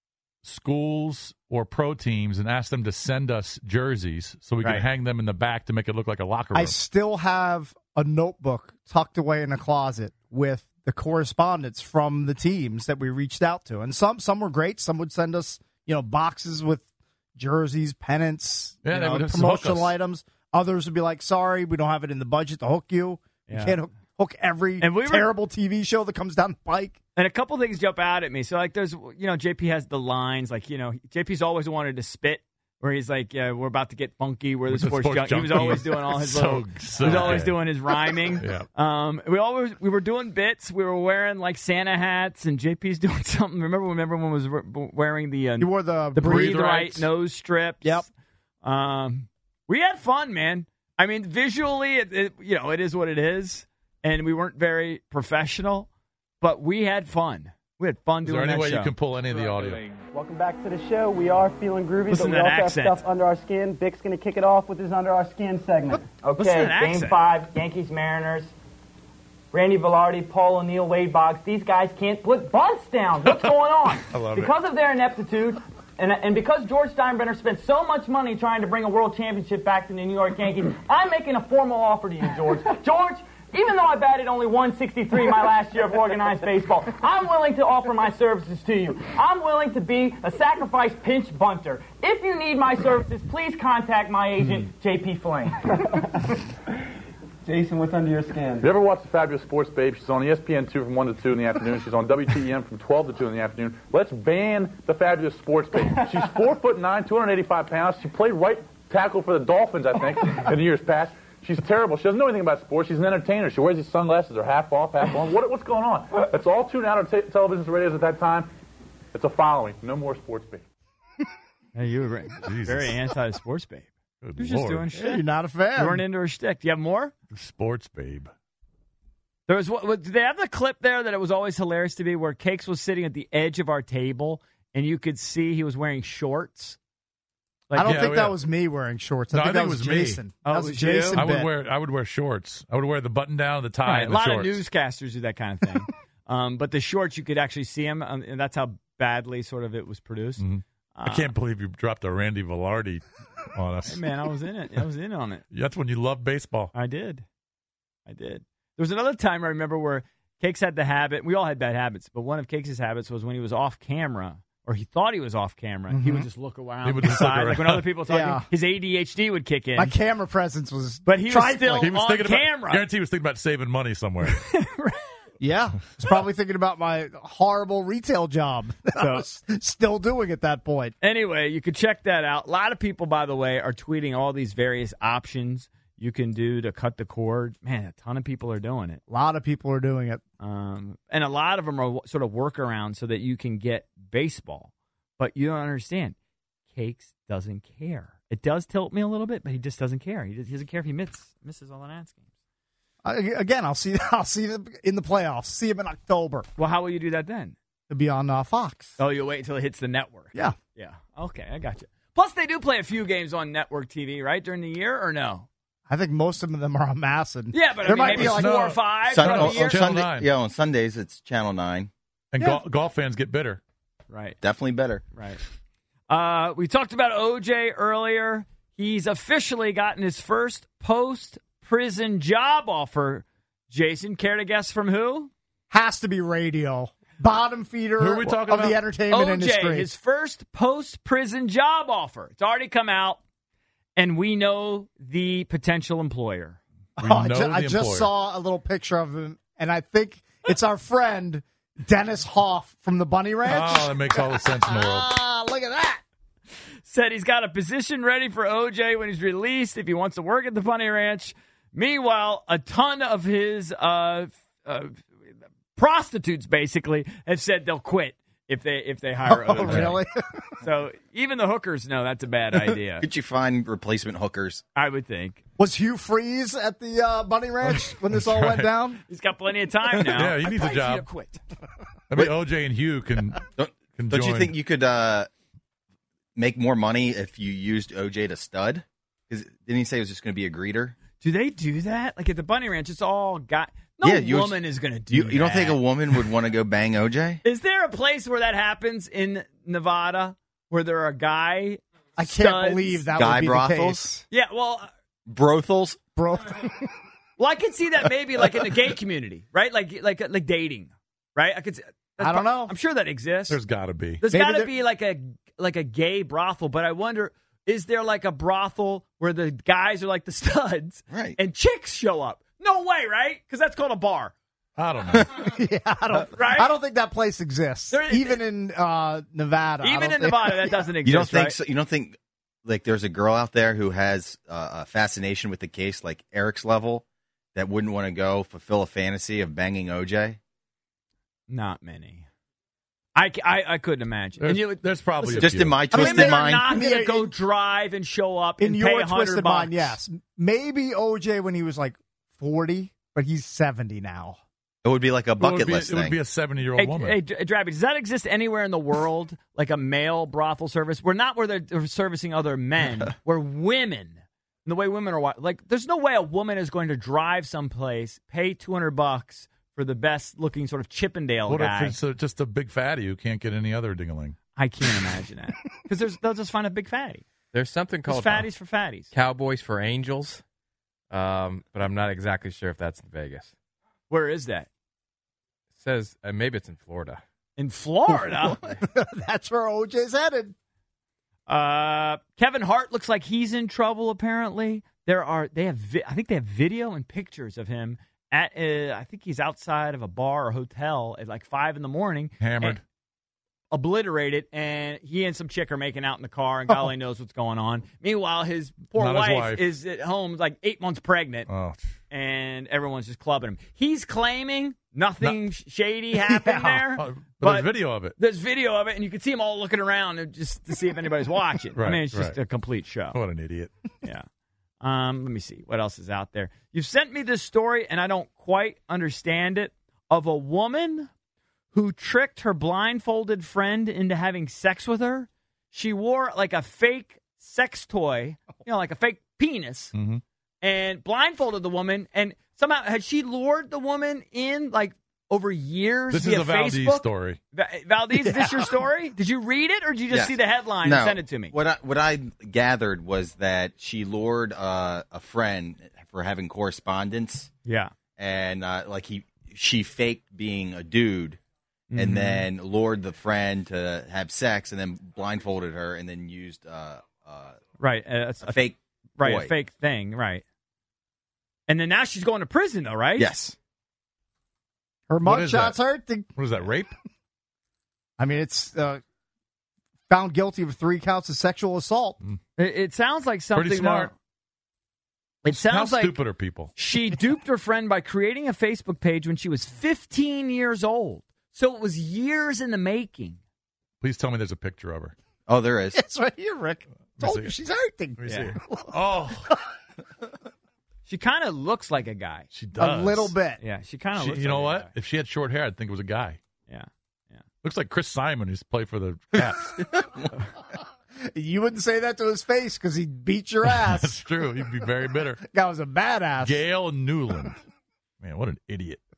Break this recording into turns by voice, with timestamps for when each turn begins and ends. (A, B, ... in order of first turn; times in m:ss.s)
0:00.4-0:06.8 A
0:04.6-0:04.9 B
0:06.5-0:27.0 C
0:18.8-0:20.0 A
0:23.5-0:23.8 B
0:24.8-0:25.3 B
0:27.1-0:48.1 B
0:34.7-0:38.6 A
0:45.6-0:46.6 C
0:46.2-0:47.0 A
0:47.8-0:48.1 C
0:48.6-0:55.9 B
0:56.4-0:58.9 B
0:58.2-1:00.0 A
1:00.1-1:08.5 D
1:02.1-1:03.0 B
1:06.4-1:07.2 B
1:09.5-1:36.2 D
1:13.2-1:13.5 A
1:14.1-1:14.5 A
1:37.4-1:38.6 D
1:38.6-1:58.5 E
1:59.1-2:00.6 E
2:01.7-2:05.2 B
2:02.4-2:03.0 A
2:04.2-2:04.8 A
2:04.9-2:06.0 C
2:05.8-2:07.1 B
2:07.3-2:08.3 A
2:09.5-2:16.8 B
2:17.7-2:18.1 B
2:17.7-2:21.5 C
2:17.8-2:18.4 A
2:19.3-2:20.2 A
2:20.4-2:21.3 B
2:21.1-2:24.6 A
2:23.8-2:31.3 B
2:30.4-2:34.0 A
2:33.8-2:35.4 B
2:35.5-2:36.7 A
2:36.7-2:37.2 B
2:38.0-2:49.9 B
2:45.9-2:46.3 C
2:46.8-2:47.8 A
2:48.1-2:48.5 C
2:49.8-2:51.9 C
2:51.0-2:52.8 B
2:51.8-2:54.4 A
2:54.3-2:55.1 B
2:55.4-3:00.9 C
2:59.0-2:59.2 B
3:01.0-3:09.0 B
3:09.1-3:10.2 C
3:10.4-3:16.2 B
3:16.7-3:22.2 B
3:23.0-3:26.5 C
3:26.6-3:27.6 B
3:27.9-3:29.0 C
3:29.0-3:35.5 B
3:35.9-3:38.8 C
3:37.5-3:39.8 B
3:38.1-3:40.3 A
3:39.1-3:41.9 F
3:42.3-3:43.6 A
3:44.1-3:44.4 B
3:44.4-3:45.0 F
3:45.1-3:45.4 B
3:46.1-3:55.3 B
3:55.7-3:59.9 C
3:58.0-3:58.8 A
3:59.1-4:03.2 B
4:04.0-4:06.6 B
4:07.0-4:08.1 A
4:07.0-4:16.0 C
4:13.5-4:15.1 A
4:16.8-4:25.0 B
4:25.7-4:30.0 B
4:29.2-4:30.2 C
4:29.7-4:29.9 A
4:30.6-4:33.0 B
4:33.0-4:34.6 F
4:34.7-4:35.4 B
4:35.6-4:39.0 C
4:37.6-4:38.7 A
4:39.1-4:41.4 B
4:40.1-4:41.1 A
4:42.1-4:44.5 A
4:43.6-4:45.3 F
4:46.4-4:50.9 F
4:51.2-4:55.8 B
4:54.0-4:54.6 F
4:55.1-4:57.4 F
4:57.4-5:03.0 B
5:02.2-5:04.2 C
5:03.1-5:04.1 F
5:04.3-5:04.9 B
5:05.3-5:06.0 F
5:06.2-5:06.9 C
5:07.4-5:13.6 B
5:12.2-5:12.7 C
5:13.5-5:14.2 A
5:14.2-5:24.3 B
5:14.3-5:14.7 C
5:21.1-5:21.4 F
5:24.8-5:25.3 A
5:25.2-5:30.8 C
5:26.1-5:26.7 B
5:27.9-5:28.4 B
5:29.8-5:31.6 B
5:31.0-5:37.0 F
5:37.5-5:40.4 F
5:41.5-5:42.2 B
5:43.1-5:50.0 B
5:44.4-5:45.8 A
5:45.4-5:46.6 F
5:45.9-5:47.3 C
5:48.6-5:54.4 C
5:54.8-5:56.2 F
5:55.4-5:57.2 A
5:56.8-6:12.0 B
6:11.5-6:14.4 A
6:14.6-6:17.2 B
6:17.5-6:18.5 G
6:18.0-6:19.1 B
6:19.1-6:20.4 G
6:21.1-6:23.5 G
6:24.1-6:24.7 B
6:25.7-6:27.2 G
6:27.6-6:28.6 B
6:28.1-6:30.5 C
6:31.5-6:42.8 B
6:42.4-6:42.8 A
6:43.7-6:51.5 B
6:48.9-6:49.7 A
6:51.5-6:51.9 A
6:52.1-7:03.2 B
6:56.2-6:57.0 C
6:57.0-6:58.1 A
7:01.8-7:02.4 A
7:03.1-7:03.7 A
7:04.8-7:11.1 B
7:11.7-7:19.9 B
7:19.9-7:20.2 A
7:20.6-7:31.6 B
7:26.1-7:27.4 A
7:28.2-7:28.7 C
7:30.1-7:37.5 F
7:37.6-7:37.9 B
7:38.2-7:41.4 F
7:41.9-7:42.5 B
7:41.9-7:47.6 F
7:47.8-7:48.6 B
7:48.4-7:49.5 F
7:49.2-7:50.4 B
7:51.7-7:53.3 B
7:53.2-7:53.5 F
7:55.1-7:56.3 C
7:55.2-7:55.8 A
7:56.3-7:56.9 A
7:58.2-7:59.0 C
8:00.1-8:02.2 C
8:02.6-8:04.1 B
8:03.5-8:04.1 A
8:05.4-8:06.2 B
8:05.4-8:06.7 A
8:06.7-8:13.4 B
8:14.0-8:15.1 A
8:15.5-8:16.0 F
8:15.9-8:19.6 C
8:17.2-8:17.5 A
8:18.2-8:19.5 A
8:18.2-8:18.6 B
8:21.0-8:22.5 B
8:22.5-8:23.3 A
8:22.8-8:23.6 C
8:23.6-8:24.9 B
8:24.2-8:26.4 A
8:26.7-8:27.4 B
8:27.6-8:29.7 A
8:29.4-8:30.2 F
8:31.3-8:34.2 C
8:33.6-8:35.4 A
8:35.4-8:36.6 C
8:36.4-8:37.6 A
8:38.2-8:39.0 A